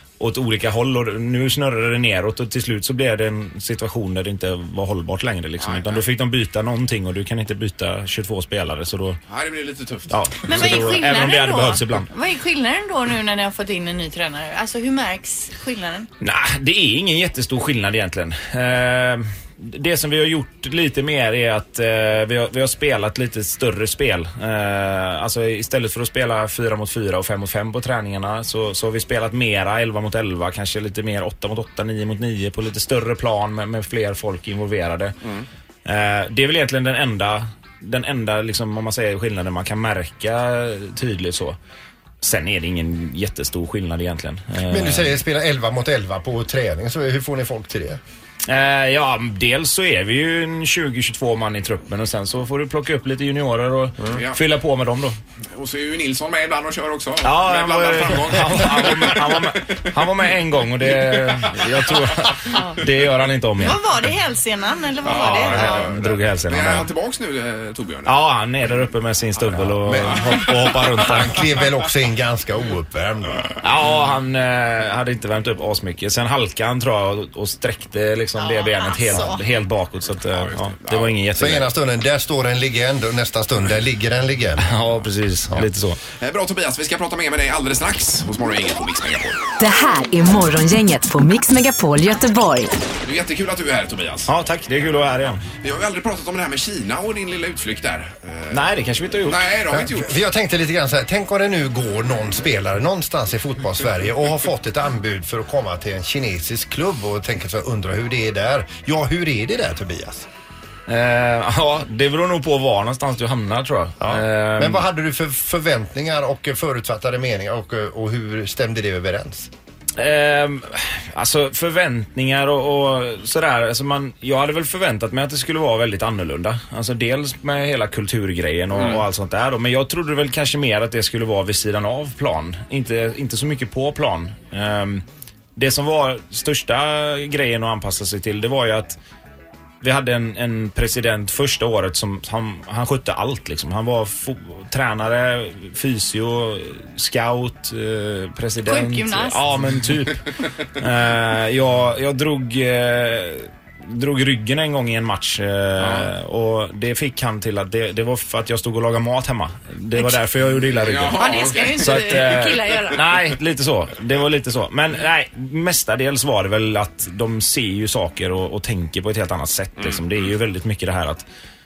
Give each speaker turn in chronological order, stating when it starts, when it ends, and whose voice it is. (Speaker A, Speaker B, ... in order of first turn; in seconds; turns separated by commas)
Speaker A: 0.2-9.2, Speaker B: 5.6-6.1, Speaker B: 9.3-10.8, Speaker A: 10.1-12.1, Speaker C: 10.5-16.1, Speaker A: 16.2-35.2, Speaker A: 35.9-41.6, Speaker A: 42.2-45.2, Speaker D: 44.7-48.0, Speaker A: 48.5-55.2, Speaker B: 54.1-54.4, Speaker B: 55.5-59.9, Speaker A: 57.2-63.8, Speaker B: 60.9-61.9, Speaker C: 62.5-62.8, Speaker C: 63.6-65.9, Speaker B: 65.0-68.2, Speaker A: 65.1-66.9, Speaker A: 68.1-71.4, Speaker B: 69.6-70.4, Speaker D: 69.8-73.4, Speaker A: 73.6-81.7, Speaker C: 78.4-79.4, Speaker B: 80.3-81.2, Speaker D: 81.4-84.7, Speaker A: 84.6-86.0, Speaker B: 86.2-89.4, Speaker E: 89.6-92.8, Speaker B: 93.0-94.3, Speaker A: 94.3-95.5, Speaker B: 95.5-98.7, Speaker A: 98.5-99.5, Speaker B: 99.3-100.1, Speaker D: 99.7-110.3, Speaker A: 110.9-114.9, Speaker D: 114.0-119.5, Speaker A: 120.0-135.0, Speaker B: 128.7-129.1, Speaker A: 135.6-139.0, Speaker A: 139.8-171.2, Speaker C: 148.6-149.4, Speaker B: 155.8-156.1, Speaker B: 160.7-162.2, Speaker C: 161.2-163.2, Speaker B: 169.8-170.3